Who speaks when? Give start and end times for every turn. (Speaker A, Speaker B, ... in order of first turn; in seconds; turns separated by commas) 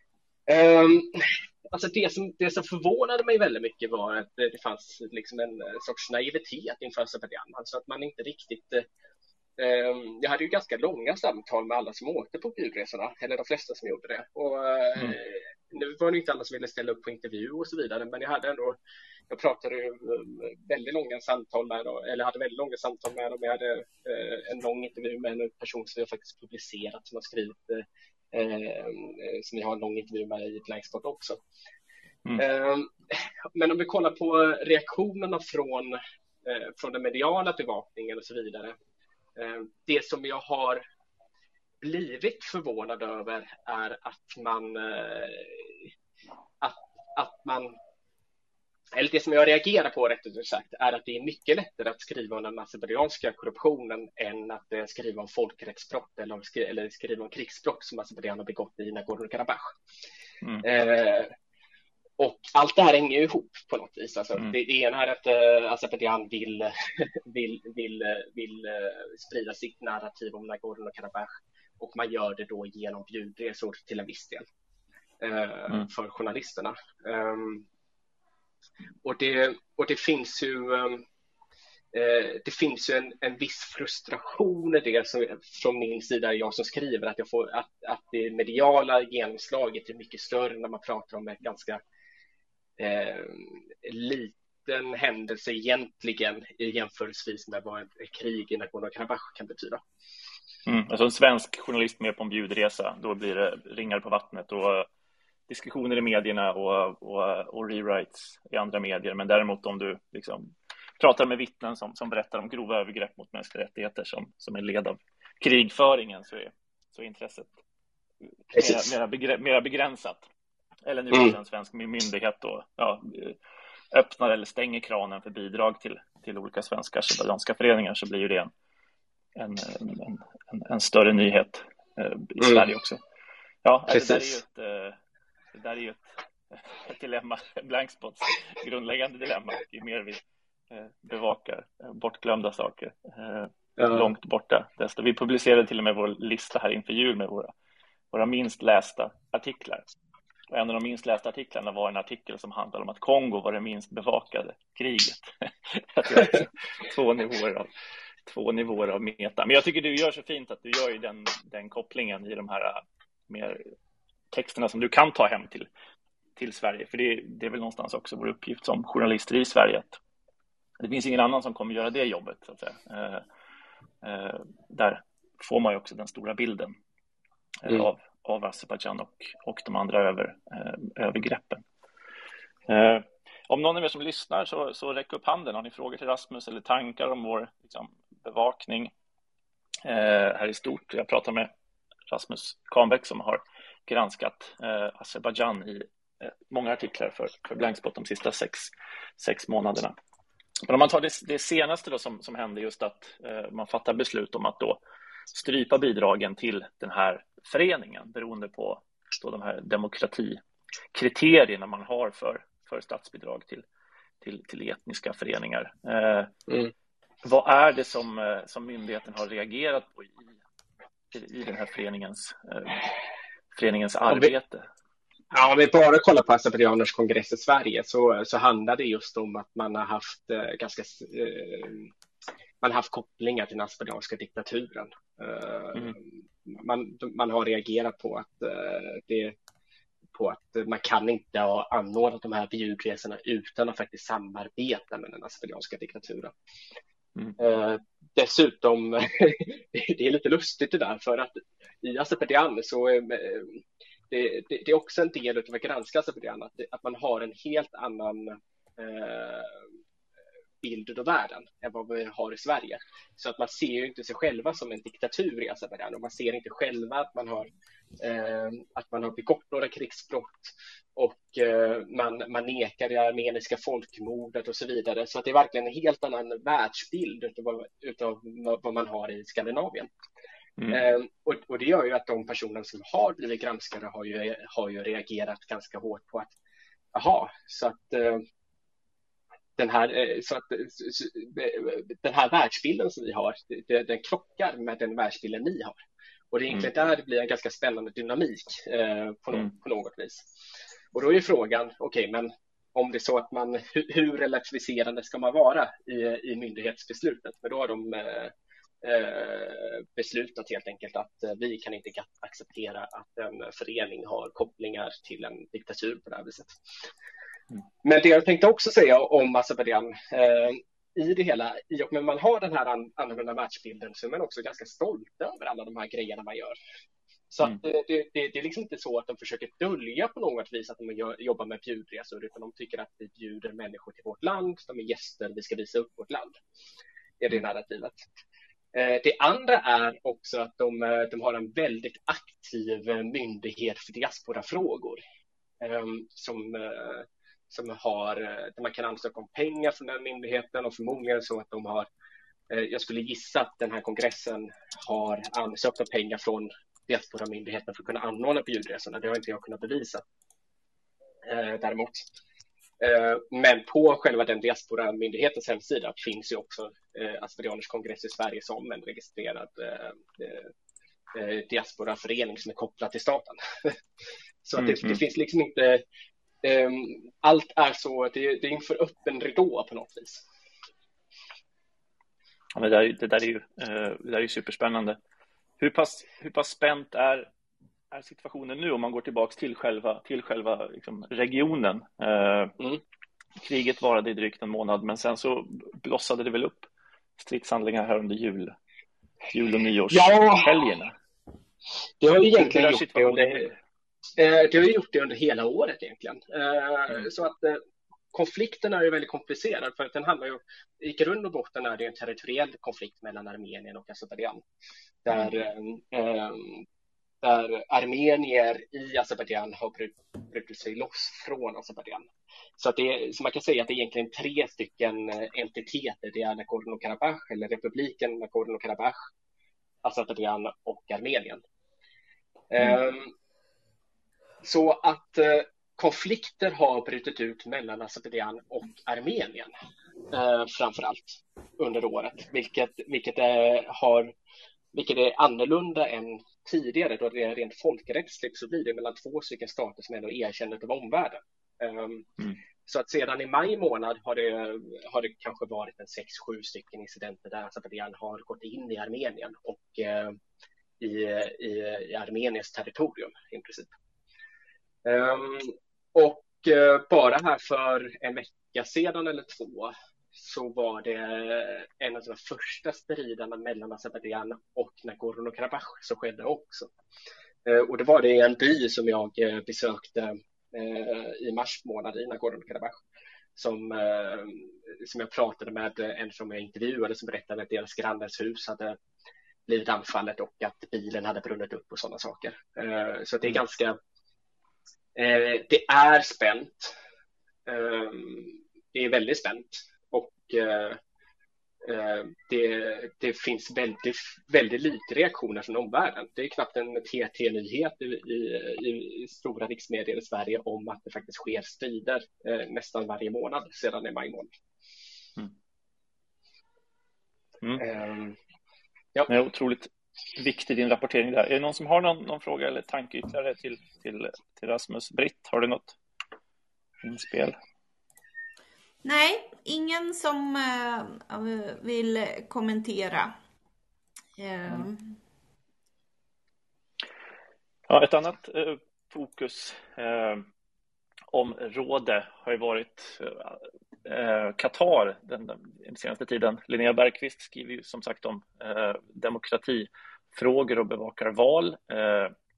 Speaker A: 0.5-8.8, Speaker A: 9.6-18.8, Speaker A: 19.3-31.4, Speaker A: 32.4-38.8, Speaker A: 39.4-40.8, Speaker A: 41.8-45.9, Speaker A: 46.6-47.7, Speaker A: 48.9-59.7, Speaker A: 60.6-61.3, Speaker A: 62.2-74.4, Speaker A: 75.2-77.7, Speaker A: 79.0-81.0, Speaker A: 81.9-91.8, Speaker A: 92.8-99.8, Speaker B: 100.7-104.9, Speaker B: 105.5-117.5, Speaker B: 118.5-120.2, Speaker A: 118.5-118.9, Speaker B: 120.8-123.4, Speaker B: 123.9-128.5, Speaker B: 129.4-133.0, Speaker A: 132.4-132.7, Speaker B: 133.6-135.0, Speaker A: 133.9-134.4, Speaker B: 135.5-147.5, Speaker A: 143.8-144.1, Speaker B: 148.1-149.8, Speaker B: 150.5-157.7, Speaker B: 158.3-163.6, Speaker B: 164.3-165.7, Speaker B: 166.4-170.0, Speaker B: 170.8-173.2, Speaker B: 174.0-176.7, Speaker B: 177.6-181.6, Speaker B: 182.7-188.9, Speaker B: 189.9-191.5, Speaker B: 192.1-199.9, Speaker B: 200.7-204.8, Speaker B: 205.3-210.4, Speaker B: 210.9-213.6, Speaker B: 214.2-216.3, Speaker B: 217.2-220.3, Speaker B: 221.1-222.8, Speaker B: 223.6-224.7, Speaker A: 225.3-231.9, Speaker A: 232.6-239.3, Speaker A: 240.1-246.3, Speaker A: 247.4-259.6, Speaker A: 260.6-267.5, Speaker A: 268.0-279.9, Speaker A: 280.7-286.3, Speaker A: 286.9-288.2, Speaker A: 289.6-295.8, Speaker A: 296.3-300.3, Speaker A: 300.9-316.6, Speaker A: 317.8-326.6, Speaker A: 327.3-336.4, Speaker A: 337.2-338.1, Speaker A: 338.7-345.0, Speaker A: 345.6-351.9, Speaker A: 352.5-360.0, Speaker A: 361.2-362.1, Speaker A: 362.8-370.5, Speaker A: 371.1-373.8, Speaker A: 374.4-375.8, Speaker B: 374.6-375.0, Speaker A: 376.4-380.2, Speaker B: 382.6-385.0, Speaker B: 385.6-387.3, Speaker B: 387.9-392.5, Speaker B: 393.4-398.6, Speaker B: 399.3-400.9, Speaker A: 399.9-400.5, Speaker A: 402.0-403.5, Speaker B: 402.4-403.6, Speaker A: 404.2-407.6, Speaker A: 408.1-414.4, Speaker A: 415.1-416.6, Speaker A: 417.2-429.0, Speaker A: 429.8-431.4, Speaker A: 432.5-433.1, Speaker A: 434.4-439.5, Speaker A: 440.1-444.1, Speaker A: 444.7-452.1, Speaker A: 452.7-460.2, Speaker A: 460.8-463.7, Speaker A: 464.9-476.7, Speaker A: 477.4-482.8, Speaker A: 483.4-488.8, Speaker A: 489.5-493.8, Speaker A: 494.9-496.7, Speaker A: 497.4-500.8, Speaker A: 501.6-514.3, Speaker A: 517.6-518.2, Speaker B: 519.1-525.8, Speaker B: 526.8-527.4, Speaker C: 528.8-533.2, Speaker C: 534.2-535.0, Speaker B: 537.7-540.2, Speaker B: 541.1-552.1